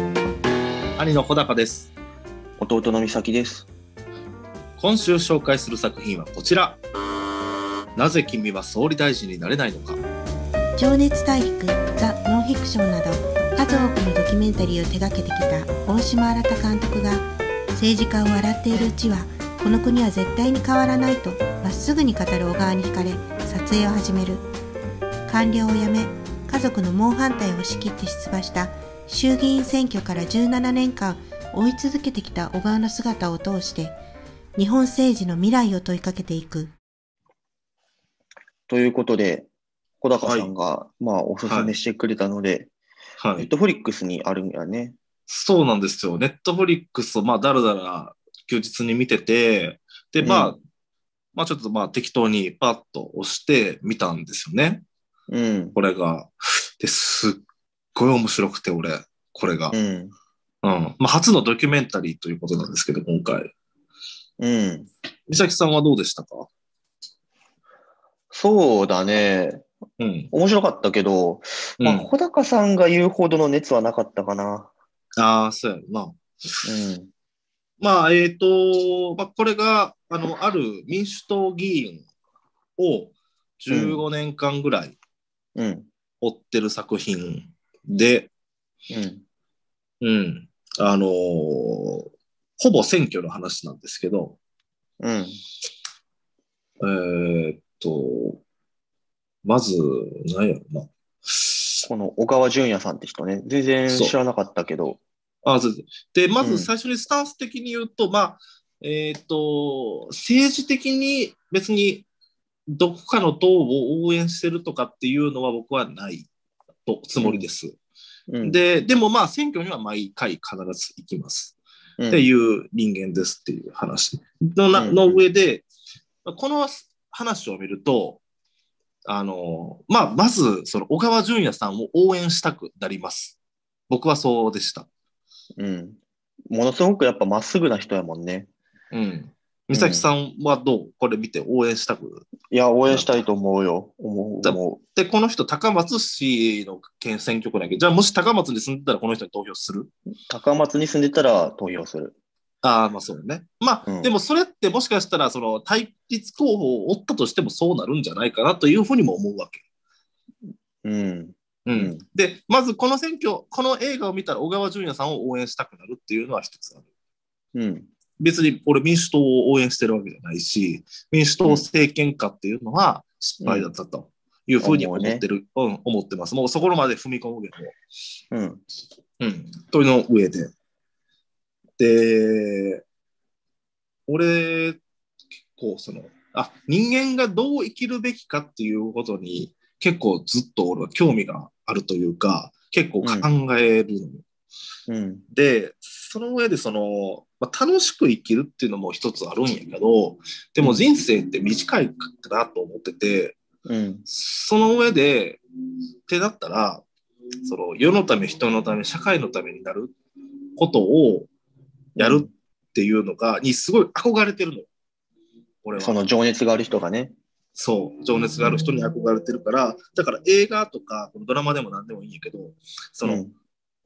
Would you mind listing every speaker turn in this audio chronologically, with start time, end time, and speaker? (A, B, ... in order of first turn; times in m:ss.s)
0:01.0-0:01.9 A
0:02.6-0:03.7 B
0:04.8-0:06.8 A
0:08.0-0:10.0 A
0:10.8-0:24.5 C
0:25.3-0:34.0 C
0:34.6-0:36.7 C
0:38.7-0:39.5 B
0:40.0-0:42.7 B
0:40.2-0:40.5 A
0:41.5-0:41.7 A
0:43.2-0:43.5 A
0:43.4-0:45.0 B
0:45.3-0:50.6 A
0:50.2-0:50.5 B
0:51.3-0:54.8 A
0:55.3-0:55.8 B
0:55.8-0:57.4 A
0:57.9-0:59.7 A
0:59.7-1:00.1 B
1:00.6-1:03.5 A
1:04.4-1:04.9 B
1:05.3-1:06.5 A
1:08.3-1:09.6 B
1:10.0-1:10.3 A
1:10.3-1:14.7 B
1:11.8-1:12.1 A
1:15.2-1:16.6 A
1:16.6-1:17.1 B
1:17.8-1:22.0 A
1:22.8-1:25.0 A
1:23.7-1:24.0 B
1:25.6-1:25.9 B
1:26.2-1:28.3 A
1:28.9-1:29.2 B
1:30.0-1:34.4 A
1:35.0-1:35.4 B
1:36.8-1:38.4 A
1:39.4-1:41.8 A
1:41.8-1:45.0 B
1:45.4-1:52.0 A
1:46.4-1:46.7 B
1:52.7-1:56.3 A
1:56.9-1:57.7 A
1:57.2-1:57.4 B
1:58.3-1:58.6 B
1:58.4-2:01.6 A
2:02.0-2:02.2 B
2:02.1-2:05.6 A
2:04.7-2:05.2 B
2:06.2-2:08.2 A
2:09.0-2:13.4 A
2:13.9-2:14.9 A
2:15.6-2:18.5 B
2:18.9-2:22.2 A
2:19.7-2:20.0 B
2:22.5-2:24.8 B
2:22.9-2:23.2 A
2:24.4-2:29.9 A
2:30.3-2:32.1 B
2:32.6-2:39.6 A
2:33.8-2:34.1 B
2:40.5-2:42.0 B
2:41.6-2:46.8 A
2:47.5-2:47.9 B
2:48.2-2:57.8 A
2:54.6-2:55.2 B
2:58.3-2:58.6 B
2:59.2-3:00.5 A
3:01.8-3:02.8 A
3:04.1-3:04.8 A
3:05.5-3:14.2 A
3:13.0-3:13.3 B
3:14.9-3:15.2 B
3:15.3-3:23.4 A
3:20.6-3:20.8 B
3:23.6-3:24.0 B
3:24.1-3:25.4 A
3:26.1-3:26.8 A
3:27.4-3:29.9 A
3:30.6-3:31.3 A
3:32.0-3:32.3 B
3:32.0-3:34.7 A
3:35.6-3:36.0 A
3:35.7-3:37.1 B
3:37.5-3:43.2 A
3:43.0-3:43.3 B